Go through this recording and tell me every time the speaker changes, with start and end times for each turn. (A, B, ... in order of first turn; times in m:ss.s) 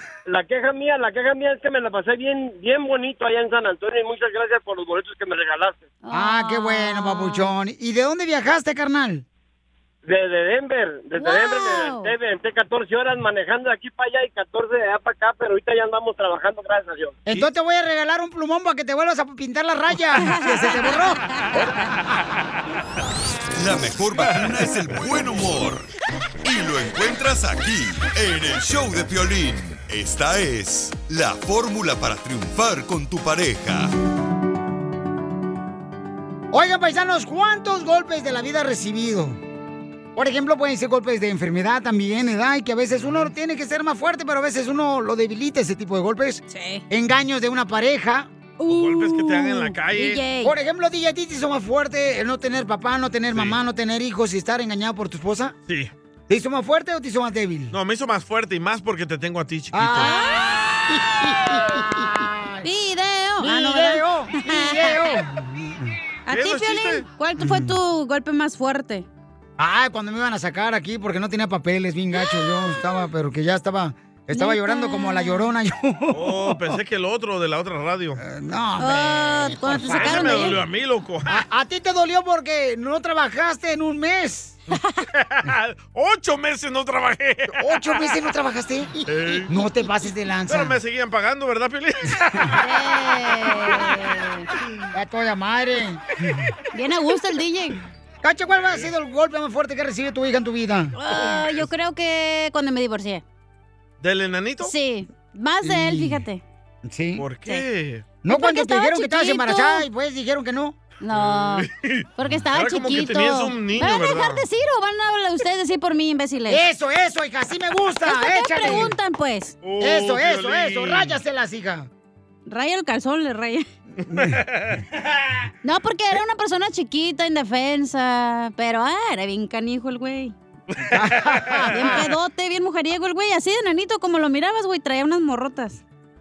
0:00.3-0:05.8 A
0:06.0-0:07.5 B
0:06.1-0:09.2 C
0:10.1-0:17.2 A
0:11.2-0:12.1 B
0:17.3-0:21.2 C
0:20.3-0:20.9 B
0:23.6-0:25.9 D
0:26.4-0:33.9 D
0:36.5-0:39.4 C
0:40.2-0:48.3 C
0:46.5-0:46.8 B
0:48.6-0:50.5 B
0:48.7-0:50.3 E
0:50.4-0:55.6 C
0:53.3-0:53.6 E
0:56.3-0:57.8 C
0:57.7-1:00.1 E
0:59.7-1:02.7 C
1:00.0-1:00.5 B
1:02.6-1:05.0 B
1:03.4-1:05.9 C
1:06.3-1:09.1 B
1:06.3-1:07.1 E
1:07.4-1:07.7 C
1:09.6-1:16.8 C
1:14.3-1:15.5 B
1:16.1-1:18.2 E
1:18.2-1:20.6 C
1:18.8-1:20.6 B
1:19.7-1:21.4 E
1:21.3-1:24.6 C
1:25.2-1:28.0 E
1:27.5-1:28.9 C
1:29.1-1:29.5 E
1:29.5-1:30.8 C
1:30.5-1:32.6 E
1:32.6-1:34.5 B
1:34.9-1:36.5 C
1:36.7-1:37.8 B
1:38.2-1:40.9 C
1:41.0-1:43.2 B
1:41.4-1:41.6 E
1:44.0-1:44.7 E
1:44.6-1:46.4 B
1:45.6-1:46.2 C
1:46.8-1:47.2 C
1:47.2-1:48.1 E
1:48.2-1:50.8 C
1:48.3-1:49.9 B
1:51.0-1:56.6 B
1:51.1-1:54.4 E
1:56.5-1:59.0 C
1:58.0-1:59.6 B
1:59.6-2:01.2 E
1:59.8-2:01.9 C
2:02.5-2:03.7 B
2:04.1-2:04.4 C
2:04.1-2:04.8 E
2:05.6-2:10.4 B
2:10.7-2:11.7 E
2:10.9-2:12.1 C
2:11.7-2:15.8 B